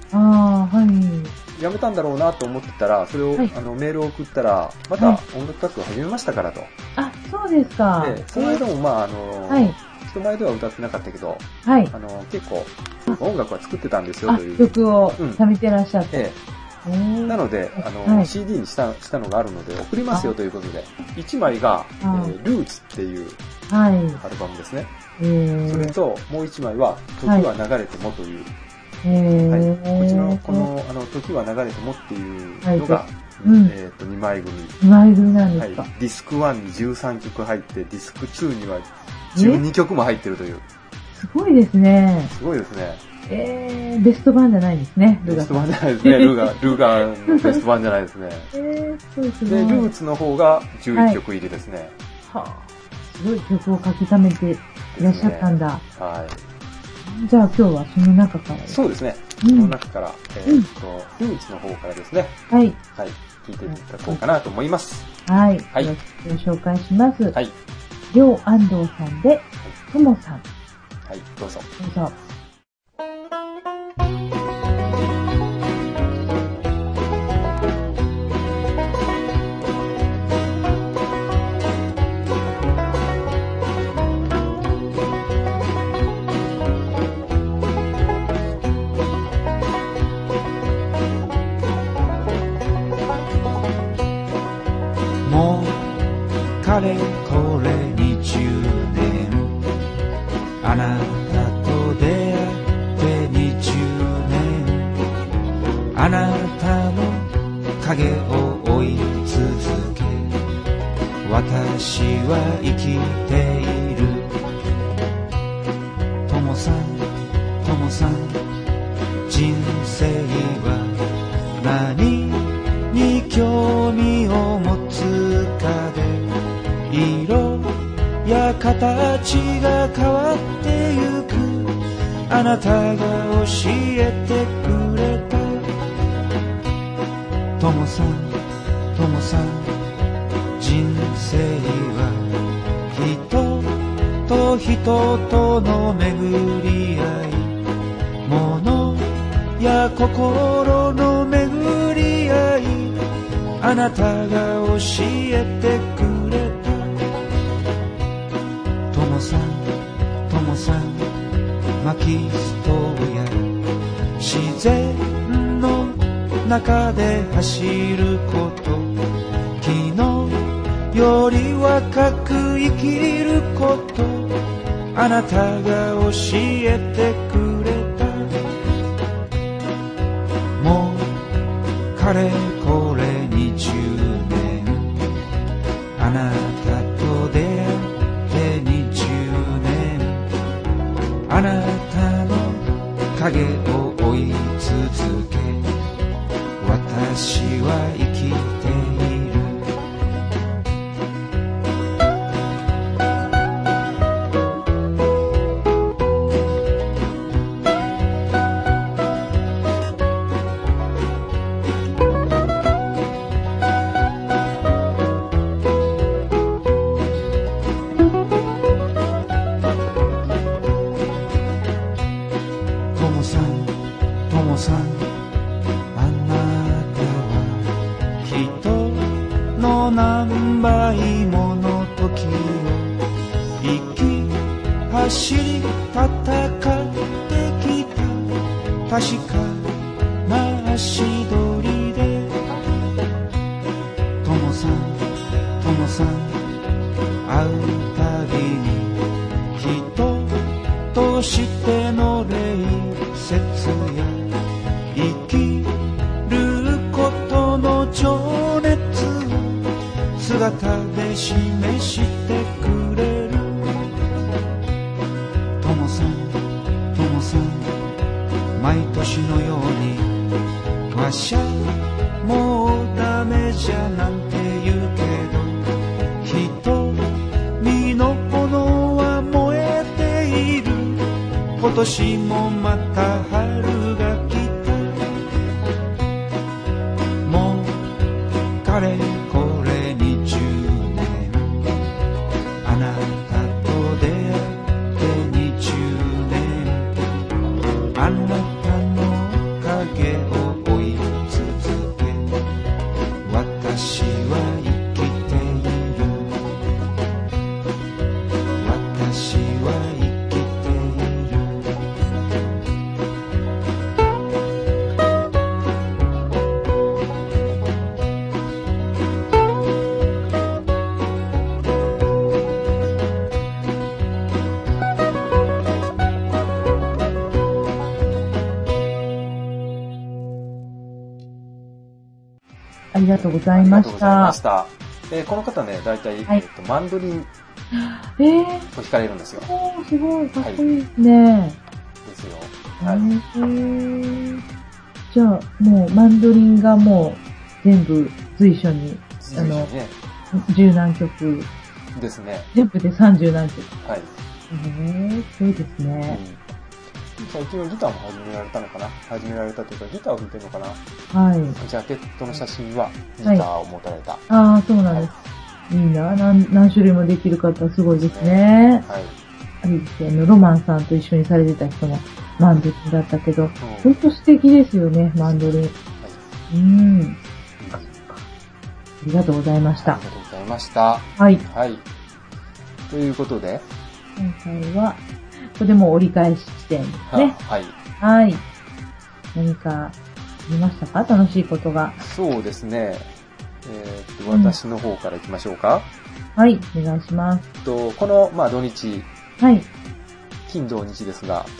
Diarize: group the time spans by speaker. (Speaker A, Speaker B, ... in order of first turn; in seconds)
Speaker A: 0.1-1.3, 7.0-8.6, 9.5-9.8, 11.6-11.9, 14.3-16.2, 16.8-18.3, 22.0-22.4, 23.7-24.2, 25.2-25.9, 29.0-30.7, 32.6-33.7, 34.8-35.9, 39.3-39.6, 41.1-42.3, 43.3-46.7, 47.3-47.6, 48.5-49.9, 50.9-51.2, 52.3-55.8, 57.0-58.8, 59.4-59.7, 62.5-62.8, 63.7-64.2, 65.2-67.3, 68.1-70.4, 71.8-72.2, 332.9-334.4, 337.7-338.7, 339.4-341.6, 342.8-344.4, 345.1-349.7, 350.3-351.5, 352.5-353.8, 354.5-356.2, 361.1-361.6, 364.3-365.1, 365.7-368.9, 369.6-375.7, 376.5-377.2, 377.8-378.2, 379.0-380.0, 381.2-381.4, 384.2-385.0, 385.5-387.4, 388.0-388.4, 389.3-392.0, 394.3-394.6, 396.4-397.4, 399.4-399.7
Speaker B: 1.5-6.7, 8.0-15.4, 16.1-16.4, 17.3-23.4, 24.2-24.9, 25.7-28.5, 29.4-34.8, 35.6-40.6, 42.3-43.0, 45.2-48.5, 49.5-52.0, 54.9-56.5, 58.7-62.4, 62.9-65.1, 71.0-71.7, 333.1-337.3, 338.7-339.5, 340.4-340.6, 342.0-343.1, 349.2-349.9, 351.9-352.5, 353.8-354.1, 356.1-356.4, 357.2-360.8, 361.6-364.2, 367.9-369.1, 373.6-374.0, 375.2-376.2, 377.6-378.1, 379.8-381.9, 382.9-383.7, 387.1-387.8, 392.0-393.1, 393.6-395.9, 397.6-399.1, 400.5-401.5
Speaker C: 95.2-96.0, 96.6-99.6, 100.6-105.0, 105.9-110.4, 111.2-114.3, 116.3-118.4, 119.3-121.0, 121.6-126.3, 126.9-135.7, 137.6-138.4, 138.9-139.8, 140.6-142.3, 142.9-147.6, 148.2-153.0, 153.6-157.0, 158.9-161.2, 161.8-163.6, 164.2-168.9, 169.6-174.4, 174.9-178.3, 180.6-181.3, 181.9-185.0, 185.9-190.3, 191.3-195.7, 196.6-199.7, 222.9-225.1, 225.9-233.0, 233.6-238.3, 238.9-242.4, 244.2-245.1, 245.6-246.5, 247.2-249.0, 249.5-254.3, 254.9-263.9, 265.6-267.8, 268.5-270.2, 270.9-275.6, 276.2-285.1, 287.2-287.9, 288.6-291.7, 292.6-297.0, 297.9-302.4, 303.2-306.4, 308.6-311.8